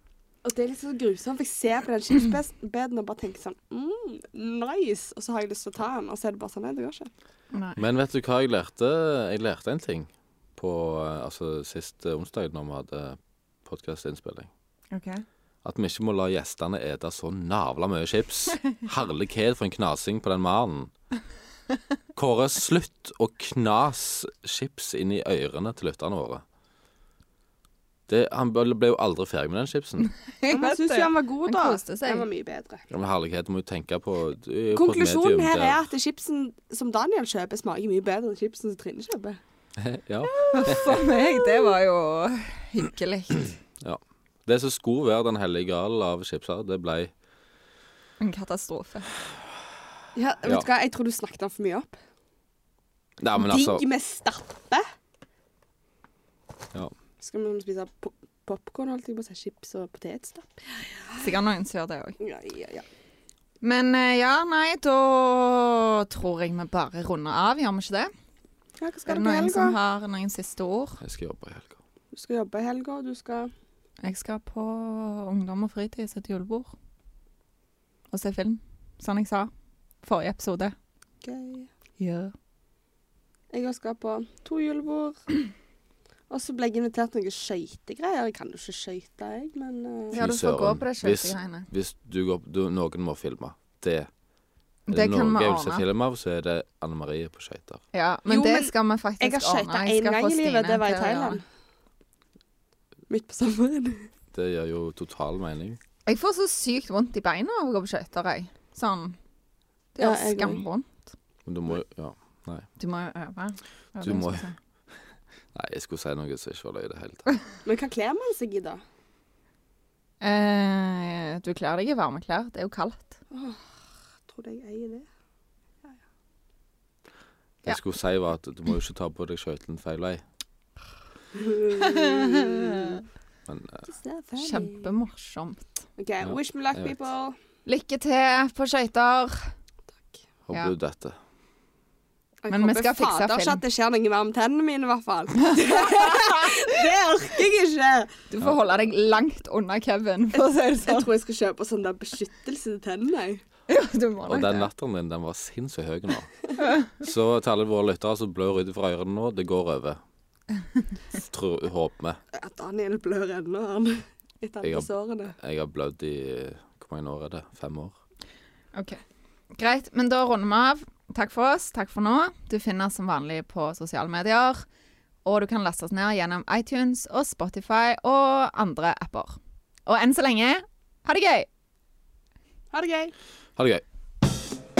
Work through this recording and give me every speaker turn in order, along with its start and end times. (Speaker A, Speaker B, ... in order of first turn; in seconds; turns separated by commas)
Speaker A: 0.4-7.1, Speaker B: 7.5-7.8, Speaker C: 7.8-14.5, Speaker B: 14.9-15.2, Speaker C: 15.6-20.9, Speaker C: 22.1-26.4, Speaker C: 28.1-30.1, Speaker B: 30.3-32.3, Speaker A: 30.5-32.8, Speaker C: 32.9-35.9, Speaker A: 34.7-39.4, Speaker C: 39.8-41.0, Speaker B: 40.5-43.5, Speaker C: 43.8-47.1, Speaker B: 48.2-49.1, Speaker A: 50.1-51.9, Speaker C: 53.2-53.8, Speaker A: 53.4-54.8, Speaker A: 57.2-61.3, Speaker B: 61.1-62.2, Speaker A: 62.2-62.8, Speaker B: 63.6-68.1, Speaker A: 68.8-69.8, Speaker B: 69.1-71.0, Speaker C: 71.0-71.8, Speaker A: 72.1-73.5, Speaker B: 74.0-76.7, Speaker B: 78.1-79.5, Speaker B: 80.0-80.8, Speaker A: 81.2-81.7, Speaker B: 82.0-82.3, Speaker A: 83.5-85.2, Speaker A: 86.3-90.2, Speaker B: 90.1-91.7, Speaker C: 90.1-94.1, Speaker B: 94.9-95.8, Speaker C: 94.9-97.8, Speaker B: 97.9-101.4, Speaker A: 98.3-101.4, Speaker A: 103.1-104.1, Speaker C: 104.3-105.8, Speaker B: 106.0-109.2, Speaker B: 109.9-111.1, Speaker A: 110.0-110.6, Speaker C: 111.4-112.7, Speaker B: 112.8-114.5, Speaker C: 114.0-114.5, Speaker C: 115.5-117.2, Speaker A: 117.6-118.8, Speaker B: 120.2-123.2, Speaker A: 123.3-123.7, Speaker A: 124.2-125.1, Speaker C: 127.6-130.2, Speaker A: 131.3-133.0, Speaker B: 131.7-133.0, Speaker C: 133.5-133.8, Speaker A: 133.9-134.9, Speaker B: 134.4-135.8, Speaker A: 136.0-137.3, Speaker C: 136.2-136.9, Speaker B: 137.6-139.5, Speaker C: 140.5-141.2, Speaker A: 142.4-148.1, Speaker B: 142.5-143.6, Speaker B: 145.4-146.8, Speaker B: 148.3-151.1, Speaker C: 148.4-148.7, Speaker A: 150.3-153.4, Speaker B: 153.7-154.7, Speaker C: 154.2-156.3, Speaker B: 156.6-156.9, Speaker C: 156.9-160.0, Speaker C: 161.1-162.2, Speaker A: 162.3-165.3, Speaker C: 164.6-167.9, Speaker B: 168.7-169.0, Speaker B: 169.5-174.7, Speaker B: 175.2-181.5, Speaker A: 182.7-183.1, Speaker C: 183.6-183.8